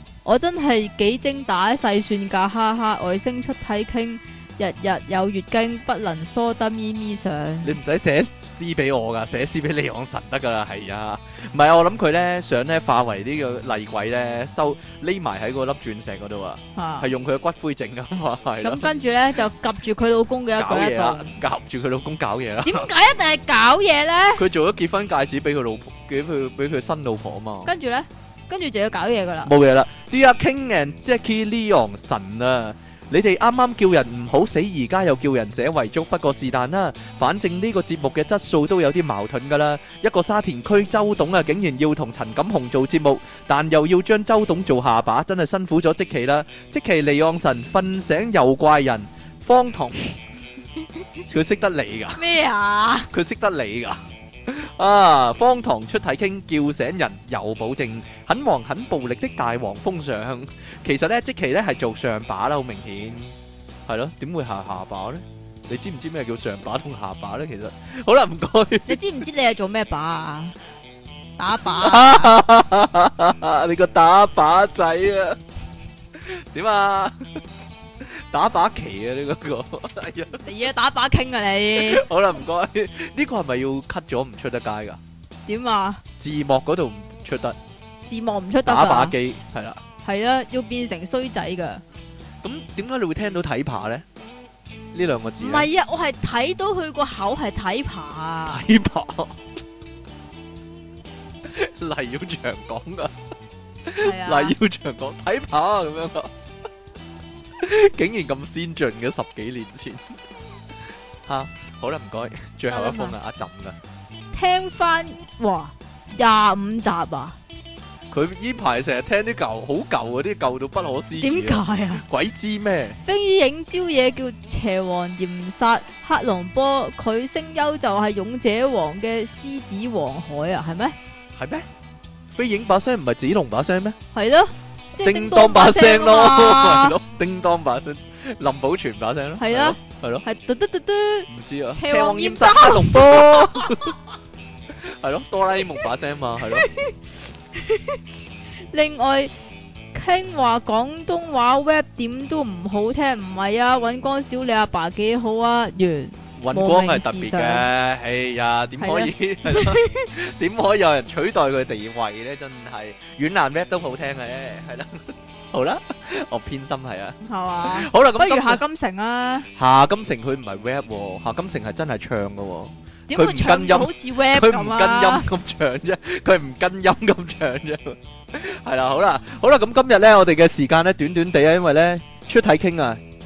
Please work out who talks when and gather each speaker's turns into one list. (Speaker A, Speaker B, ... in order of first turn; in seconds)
Speaker A: 0.2-7.8, 16.8-17.1, 18.6-21.4, 22.6-24.4, 27.6-29.5, 52.2-53.1, 68.9-70.6, 71.4-72.4, 80.4-82.0, 85.5-86.0, 88.1-89.2, 90.0-91.8, 95.4-98.7, 104.0-104.5, 112.7-113.2, 114.3-117.4, 121.2-122.0, 123.0-131.0, 134.1-137.0, 139.4-143.9, 146.6-146.9, 147.6-148.0, 148.6-149.3, 149.9-157.7, 158.8-160.1, 167.2-169.5, 173.1-175.3
Speaker B: 7.6-18.9, 20.6-22.9, 24.4-27.7, 29.4-50.1, 51.2-52.2, 53.1-63.4, 63.9-69.0, 71.7-75.4, 76.1-77.2, 78.0-80.4, 81.8-85.0, 86.2-87.6, 88.7-89.8, 92.4-94.0, 94.9-95.7, 98.5-99.4, 101.4-103.1, 103.9-106.3, 107.6-110.2, 111.3-113.8, 118.1-123.0, 131.4-131.7, 132.3-134.0, 135.0-140.2, 141.3-144.0, 144.8-146.7, 156.4-168.6, 169.6-183.0